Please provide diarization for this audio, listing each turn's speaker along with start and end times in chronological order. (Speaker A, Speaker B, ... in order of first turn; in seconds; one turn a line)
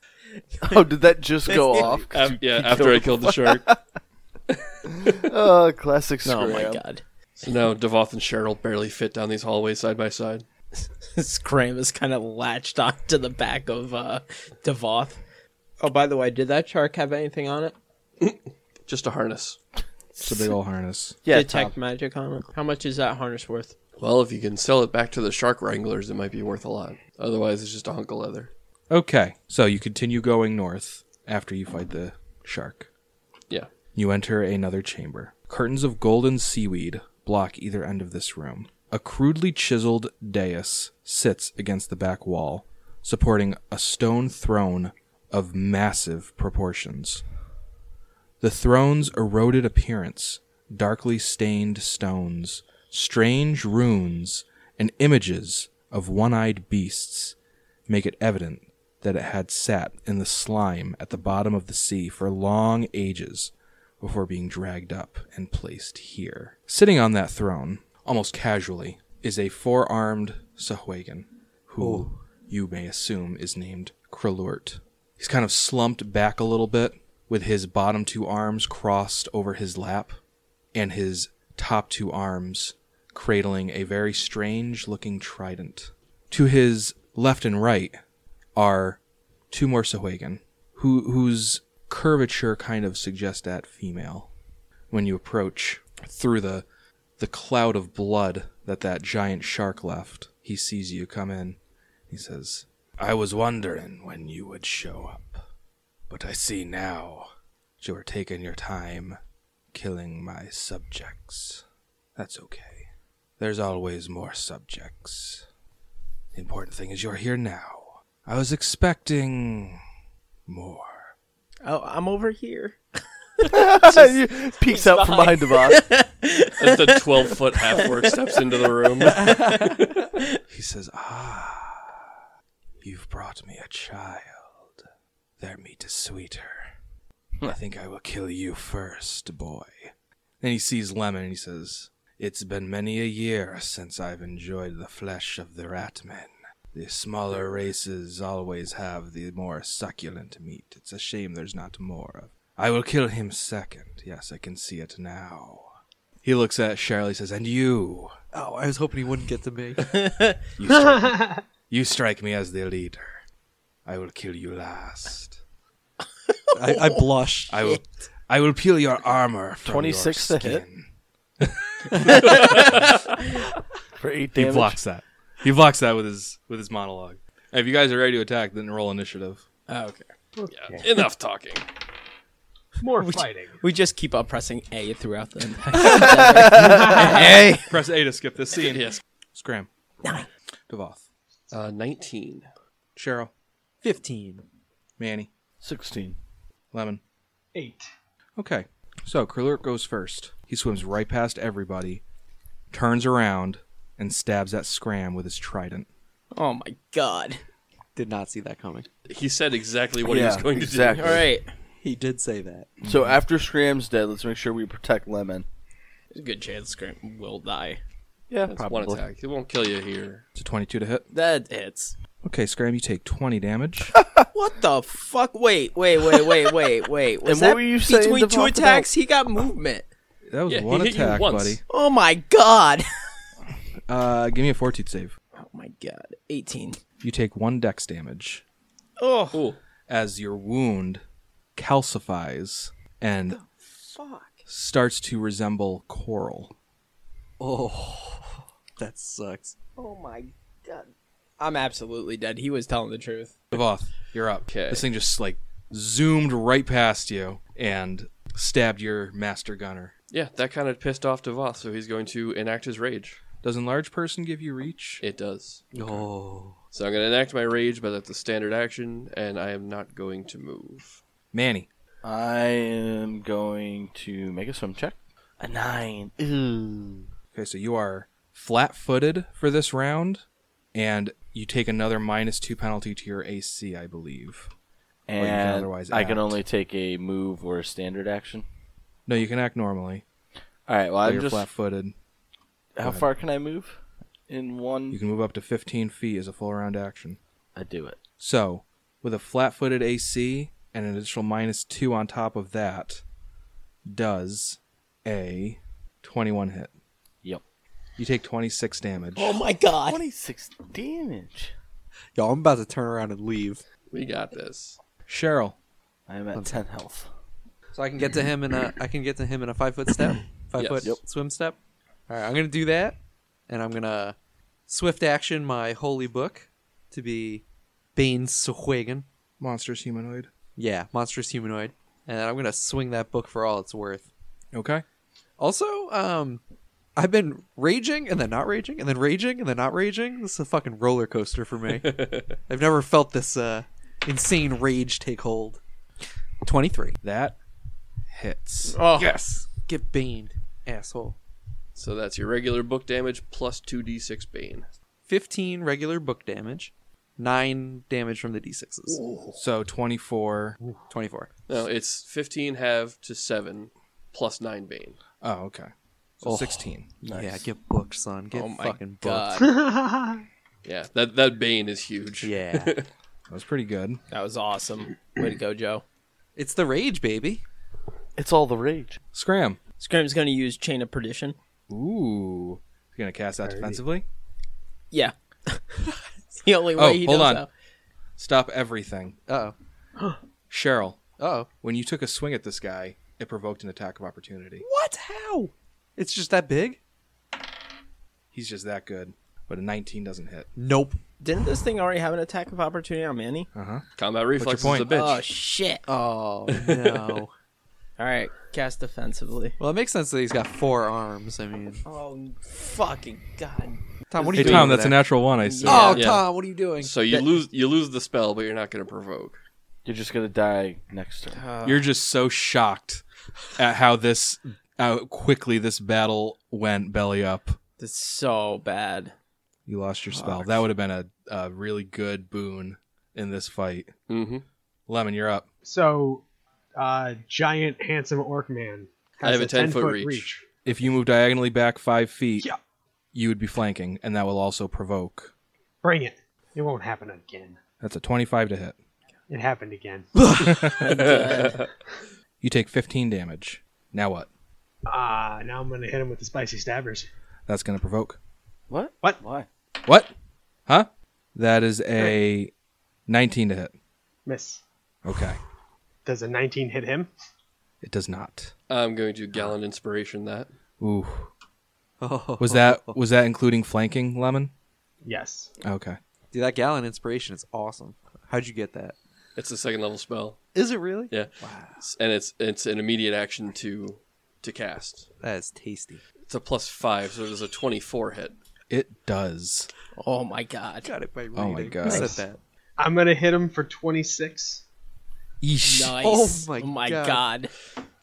Speaker A: 0.4-0.8
Speaker B: 0.6-3.8
Speaker A: 1.5-1.9
Speaker C: 2.1-3.7
Speaker B: 5.0-6.8
Speaker A: 6.2-7.0
Speaker C: 7.4-10.4
Speaker A: 11.0-15.2
Speaker A: 15.8-17.7
Speaker C: 18.2-19.6
Speaker D: 20.2-21.2
Speaker B: 21.2-21.7
Speaker A: 21.3-23.7
Speaker C: 24.0-28.5
Speaker D: 28.9-32.9
Speaker D: 33.9-47.2
Speaker D: 48.4-57.3
Speaker D: 57.9-80.2
Speaker E: 71.8-72.2
Speaker D: 80.7-88.0
Speaker D: 88.5-94.3
Speaker D: 94.9-96.6
Speaker D: 97.2-101.6
Speaker D: 102.1-105.4
Speaker D: 106.1-107.3
Speaker D: 107.8-109.2
Speaker D: 109.7-111.6
Speaker D: 112.2-115.4
Speaker D: 116.3-119.8
Speaker D: 120.5-121.1
Speaker A: 121.6-122.8
Speaker A: 123.4-127.9
Speaker B: 123.5-125.8
Speaker C: 126.6-129.7
Speaker A: 129.0-130.4
Speaker E: 129.1-129.8
Speaker D: 130.5-132.0
Speaker D: 132.8-134.7
Speaker D: 135.4-136.7
Speaker D: 137.4-155.7
Speaker D: 156.2-158.1
Speaker E: 158.3-160.1
Speaker A: 159.9-160.4
Speaker D: 160.6-163.2
Speaker F: 160.7-161.4
Speaker D: 163.8-165.4
Speaker A: 166.5-167.0
Speaker E: 166.5-167.7
Speaker D: 167.5-170.9
Speaker B: 169.6-170.6
Speaker D: 171.4-173.0
Speaker A: 172.1-172.6
Speaker C: 172.2-172.9
Speaker B: 174.0-174.8
Speaker D: 174.3-179.4
Speaker A: 179.7-180.1
Speaker F: 180.3-180.8
Speaker C: 180.5-181.7
Speaker F: 182.8-183.6
Speaker A: 182.9-187.7
Speaker D: 187.7-189.7
Speaker C: 188.7-189.0
Speaker A: 190.0-190.3
Speaker D: 190.7-191.0
Speaker C: 191.5-192.5
Speaker D: 192.9-193.3
Speaker E: 193.8-194.4
Speaker D: 195.0-195.3
Speaker B: 195.6-196.2
Speaker D: 196.7-197.0
Speaker F: 197.5-197.9
Speaker D: 198.4-202.0
Speaker D: 202.7-205.9
Speaker A: 206.3-207.4
Speaker E: 207.9-208.9
Speaker C: 209.1-211.2
Speaker B: 210.0-211.3
Speaker A: 210.9-211.5
Speaker E: 211.8-212.7
Speaker D: 212.8-213.1
Speaker B: 212.8-215.4
Speaker A: 216.1-217.8
Speaker B: 218.3-219.0
Speaker C: 218.4-220.2
Speaker D: 220.4-221.1
Speaker A: 221.1-221.9
Speaker D: 222.2-223.9
Speaker A: 224.3-229.9
Speaker B: 227.2-228.9
Speaker D: 230.3-231.6
Speaker C: 230.5-231.6
Speaker A: 231.7-232.8
Speaker D: 233.9-235.1
Speaker A: 235.3-236.8
Speaker D: 237.0-238.4
Speaker A: 239.0-239.4
Speaker C: 239.3-239.6
Speaker D: 239.9-241.0
Speaker D: 241.5-243.4
Speaker A: 243.3-244.4
Speaker D: 244.4-246.5
Speaker E: 247.4-249.5
Speaker A: 249.8-253.3
Speaker D: 253.5-259.9
Speaker C: 254.5-254.9
Speaker C: 260.1-263.2
Speaker D: 263.4-265.0
Speaker C: 265.0-265.6
Speaker D: 265.7-266.0
Speaker E: 265.7-266.6
Speaker C: 266.7-271.0
Speaker D: 271.3-271.7
Speaker B: 272.0-277.1
Speaker D: 277.3-284.5
Speaker B: 285.1-288.4
Speaker D: 285.2-286.4
Speaker D: 289.1-290.0
Speaker B: 290.7-291.5
Speaker D: 291.0-291.9
Speaker B: 292.8-293.8
Speaker D: 292.8-293.1
Speaker B: 294.3-295.0
Speaker D: 294.9-297.2
Speaker B: 297.5-298.0
Speaker D: 298.2-303.0
Speaker D: 303.9-306.7
Speaker D: 308.0-309.4
Speaker A: 309.1-310.0
Speaker B: 309.9-311.5
Speaker E: 312.1-313.6
Speaker C: 313.9-314.8
Speaker D: 315.1-315.6
Speaker B: 316.1-317.1
Speaker E: 316.3-316.6
Speaker E: 317.7-321.6
Speaker C: 320.5-320.9
Speaker E: 322.1-323.0
Speaker E: 323.5-324.1
Speaker E: 324.7-327.4
Speaker E: 327.9-329.1
Speaker D: 329.4-330.3
Speaker E: 330.6-334.1
Speaker D: 334.5-334.8
Speaker E: 335.4-336.4
Speaker E: 336.9-345.6
Speaker C: 341.7-342.4
Speaker E: 346.4-347.0
Speaker D: 347.0-347.4
Speaker D: 348.1-348.8
Speaker A: 348.7-349.1
Speaker E: 348.9-351.2
Speaker C: 351.7-354.7
Speaker E: 355.1-359.0
Speaker A: 358.9-359.3
Speaker D: 359.4-360.6
Speaker E: 360.9-361.3
Speaker C: 361.5-365.0
Speaker D: 365.2-366.9
Speaker E: 366.2-369.3
Speaker B: 367.0-367.4
Speaker A: 368.3-369.5
Speaker F: 369.4-370.2
Speaker C: 370.6-372.9
Speaker E: 372.2-372.8
Speaker D: 373.3-374.0
Speaker A: 374.1-375.8
Speaker E: 376.4-377.4
Speaker B: 378.2-379.0
Speaker D: 379.1-379.6
Speaker A: 379.8-381.4
Speaker D: 381.7-384.0
Speaker F: 383.4-383.8
Speaker A: 384.9-385.6
Speaker A: 386.4-387.5
Speaker D: 386.8-387.4
Speaker D: 388.2-389.2
Speaker E: 389.3-389.5
Speaker D: 390.5-391.0
Speaker E: 391.2-391.5
Speaker D: 391.6-394.6
Speaker E: 394.6-396.8
Speaker D: 398.3-400.5
Speaker E: 400.6-401.0
Speaker A: 401.2-403.5
Speaker D: 403.5-403.8
Speaker C: 404.0-405.2
Speaker D: 404.4-404.9
Speaker A: 404.8-405.8
Speaker E: 405.9-407.3
Speaker C: 406.5-407.2
Speaker A: 408.0-409.6
Speaker E: 409.6-411.8
Speaker A: 411.8-414.7
Speaker E: 414.1-415.0
Speaker D: 414.3-416.0
Speaker C: 414.4-414.7
Speaker A: 415.4-416.1
Speaker E: 415.6-417.3
Speaker C: 415.9-419.4
Speaker B: 419.8-421.4
Speaker A: 421.3-421.9
Speaker D: 421.6-423.0
Speaker D: 423.6-427.6
Speaker A: 427.8-429.1
Speaker D: 429.7-433.9
Speaker A: 430.2-430.5
Speaker C: 434.1-434.4
Speaker D: 434.9-435.4
Speaker F: 435.6-436.2
Speaker F: 436.8-440.4
Speaker C: 439.2-440.3
Speaker D: 440.6-442.5
Speaker D: 443.1-445.3
Speaker F: 445.8-447.6
Speaker D: 447.8-448.8
Speaker F: 449.3-450.1
Speaker E: 450.1-451.2
Speaker D: 450.4-451.0
Speaker C: 450.7-451.7
Speaker A: 450.9-451.6
Speaker D: 452.4-454.3
Speaker F: 454.9-457.1
Speaker D: 457.5-458.2
Speaker B: 458.7-459.5
Speaker D: 459.8-460.1
Speaker D: 460.7-462.5
Speaker D: 463.1-463.7
Speaker F: 464.2-464.6
Speaker D: 465.0-465.4
Speaker F: 466.0-467.1
Speaker D: 467.8-468.5
Speaker C: 468.7-470.5
Speaker D: 470.8-471.3
Speaker E: 472.0-473.0
Speaker D: 472.4-474.5
Speaker F: 475.0-475.5
Speaker D: 475.6-476.0
Speaker E: 476.3-478.9
Speaker C: 479.4-480.4
Speaker E: 480.5-481.8
Speaker C: 481.1-485.1
Speaker E: 485.2-486.0
Speaker C: 486.3-488.4
Speaker D: 488.7-489.7
Speaker A: 489.9-490.9
Speaker E: 490.8-492.4
Speaker D: 491.3-492.2
Speaker F: 491.9-492.2
Speaker F: 492.8-494.6
Speaker D: 495.4-495.9
Speaker A: 495.6-497.5
Speaker E: 496.0-497.2